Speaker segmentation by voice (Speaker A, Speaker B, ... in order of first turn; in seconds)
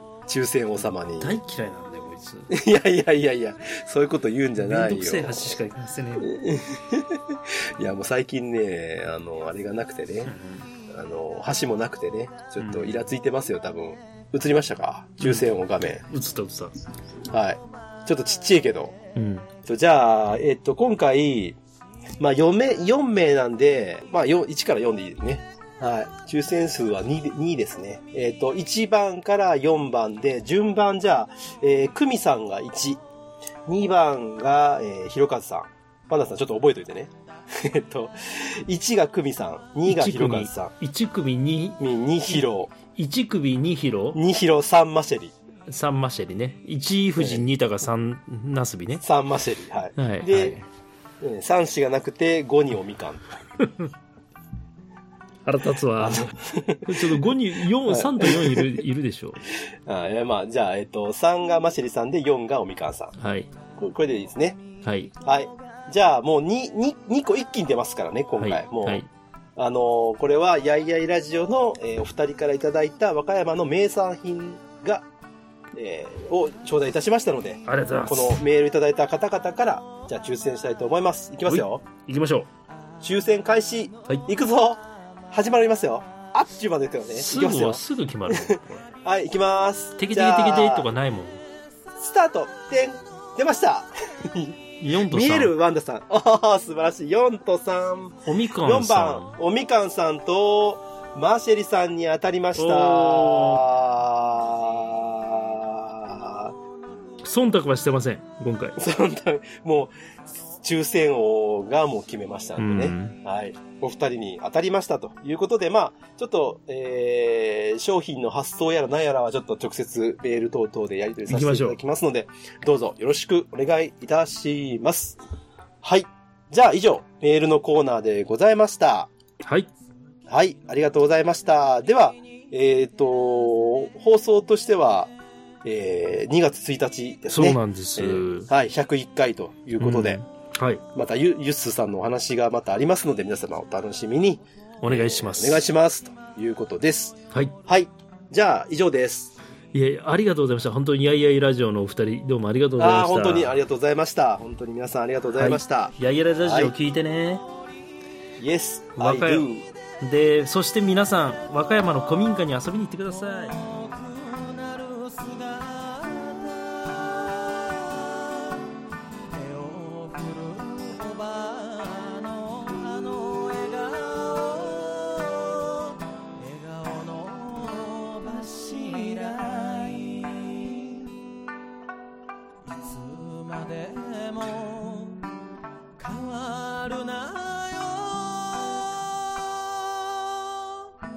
Speaker A: 0.3-1.4, 2.5-5.6, 6.2-10.3, 10.9-16.0, 17.3-18.9, 19.6-21.6, 22.2-33.0, 33.7-40.7, 41.8-42.7, 44.1-45.3, 47.2-47.4, 49.0-50.6, 51.2-53.4, 56.0-57.3, 57.9-58.8, 59.9-63.1, 63.8-64.6, 65.2-69.0, 69.5-75.0, 75.7-81.8, 83.0-90.9, 92.0-106.5, 108.8-109.9, 110.4-125.2, 125.8-129.1, 130.3-135.1, 135.6-140.2, 140.9-149.3, 152.8-156.7, 158.4-159.7
Speaker B: 1.2-2.5, 4.6-6.3, 10.2-10.7, 12.6-12.9, 15.2-15.5, 16.1-16.7, 19.1-19.5, 39.9-41.8, 42.9-44.2, 45.7-49.0, 50.0-50.7, 53.6-53.9, 55.4-59.4, 63.1-63.5, 64.8-65.1, 68.4-69.1, 77.7-78.4, 81.5-82.5, 87.1-88.8, 90.0-91.4, 94.8-95.5, 98.2-99.4, 102.5-103.6, 107.2-108.8, 112.6-113.2, 121.3-121.8, 129.4-129.7, 137.3-138.5, 139.8-140.8, 144.8-145.6, 149.7-153.5, 155.3-157.4, 159.0-159.5, 160.0-163.6
Speaker C: 163.1-168.6, 169.3-181.1, 182.7-185.2, 186.0-190.6